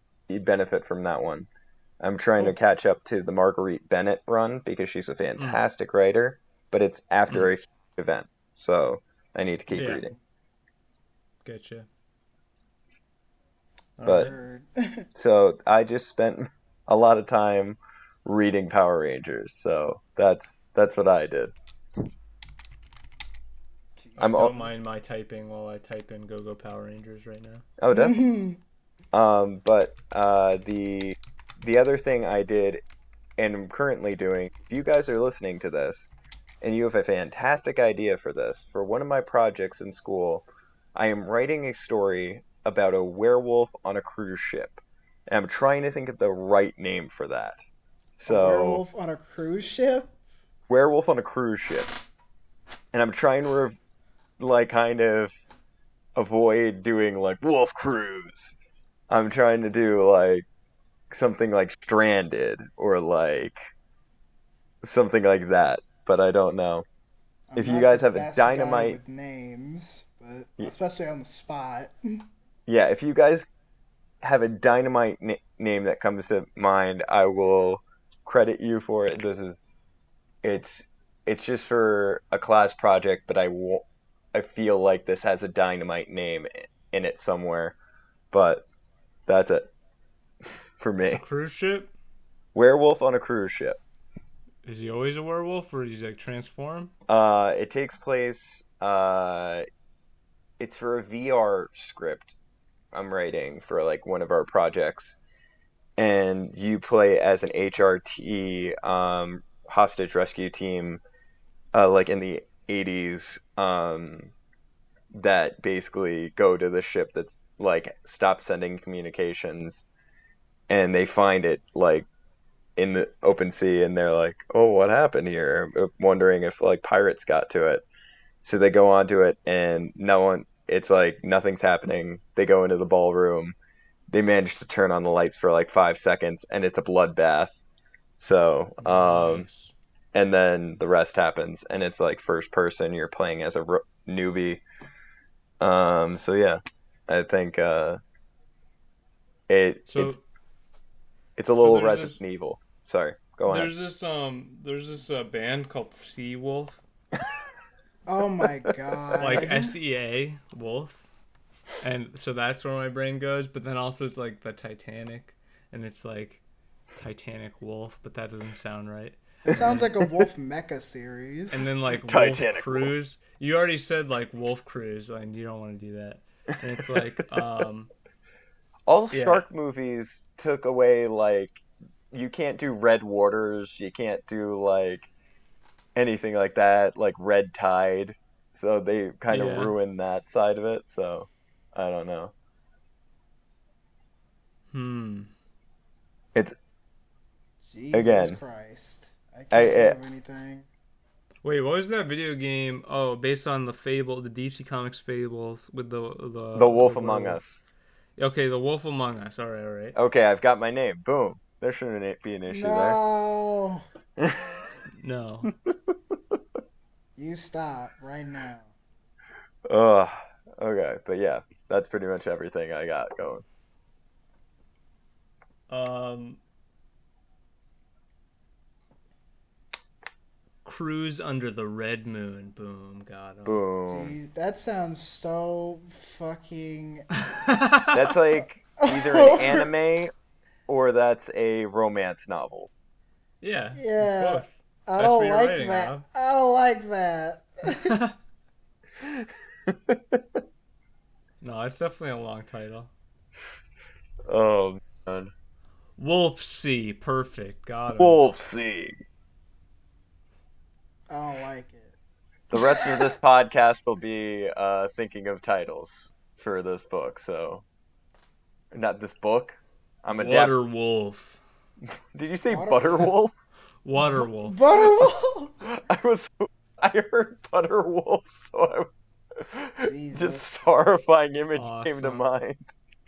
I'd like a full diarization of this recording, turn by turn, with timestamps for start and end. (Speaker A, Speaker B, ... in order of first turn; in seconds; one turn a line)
Speaker A: 0.3-1.5
Speaker A: 2.0-10.2
Speaker B: 9.7-10.0
Speaker B: 11.4-11.9
Speaker B: 14.0-14.3
Speaker C: 14.0-15.1
Speaker A: 14.1-14.3
Speaker A: 15.2-21.5
Speaker C: 24.0-24.8
Speaker A: 24.2-24.6
Speaker B: 24.2-27.6
Speaker A: 27.8-28.2
Speaker C: 27.9-28.6
Speaker A: 29.1-32.8
Speaker A: 33.4-36.1
Speaker A: 36.6-47.6
Speaker A: 48.2-48.8
Speaker C: 48.3-50.1
Speaker A: 50.7-51.9
Speaker A: 52.9-53.8
Speaker A: 54.4-55.4
Speaker A: 56.2-58.6
Speaker A: 59.1-60.5
Speaker A: 61.1-63.6
Speaker A: 64.8-66.9
Speaker C: 67.5-72.0
Speaker A: 67.6-69.0
Speaker A: 72.7-73.5
Speaker A: 74.2-79.6
Speaker A: 80.4-87.8
Speaker A: 88.3-88.7
Speaker A: 89.3-89.7
Speaker A: 90.8-91.2
Speaker B: 91.0-91.9
Speaker A: 92.5-93.8
Speaker B: 94.7-96.9
Speaker A: 97.1-99.7
Speaker A: 100.6-102.4
Speaker A: 102.9-105.2
Speaker A: 106.0-111.0
Speaker A: 111.7-114.3
Speaker A: 115.1-119.9
Speaker A: 120.7-122.1
Speaker A: 122.8-127.8
Speaker A: 128.4-133.6
Speaker A: 134.1-137.6
Speaker A: 138.2-139.5
Speaker B: 138.8-139.8
Speaker A: 140.1-144.6
Speaker A: 145.6-148.0
Speaker A: 149.5-150.1
Speaker B: 149.9-150.2
Speaker A: 151.4-153.7
Speaker B: 151.6-152.2
Speaker B: 153.5-156.8
Speaker C: 158.1-159.7
Speaker A: 159.0-159.4
Speaker B: 159.2-161.0
Speaker B: 161.8-166.4
Speaker B: 167.0-169.9
Speaker C: 169.4-171.7
Speaker B: 171.5-177.9
Speaker A: 172.1-172.9
Speaker A: 178.9-185.1
Speaker B: 179.1-179.4
Speaker A: 186.0-192.3
Speaker B: 189.3-189.7
Speaker B: 194.7-195.3
Speaker C: 197.7-200.7
Speaker A: 197.9-198.4
Speaker A: 199.5-200.0
Speaker B: 201.4-207.4
Speaker A: 206.6-207.6
Speaker B: 208.2-209.9
Speaker A: 209.9-213.0
Speaker C: 212.5-213.8
Speaker A: 214.2-214.7
Speaker B: 215.0-215.5
Speaker A: 215.7-216.4
Speaker C: 217.2-218.7
Speaker A: 219.7-223.4
Speaker B: 225.7-226.4
Speaker B: 230.6-233.6
Speaker A: 233.5-234.2
Speaker C: 233.9-237.1
Speaker B: 237.2-237.9
Speaker A: 237.9-240.1
Speaker C: 238.8-239.7
Speaker A: 240.7-242.7
Speaker B: 243.4-246.0
Speaker C: 243.8-247.9
Speaker B: 247.7-248.1
Speaker A: 249.0-250.4
Speaker B: 251.4-252.9
Speaker A: 254.3-255.3
Speaker B: 256.0-258.2
Speaker A: 257.9-259.0
Speaker C: 261.1-261.9
Speaker A: 262.5-267.6
Speaker C: 262.6-263.0
Speaker A: 268.7-270.5
Speaker B: 270.1-271.4
Speaker A: 272.1-273.4
Speaker C: 272.5-273.1
Speaker B: 273.8-274.6
Speaker C: 274.0-275.5
Speaker A: 275.6-282.7
Speaker C: 279.8-280.5
Speaker B: 281.6-282.2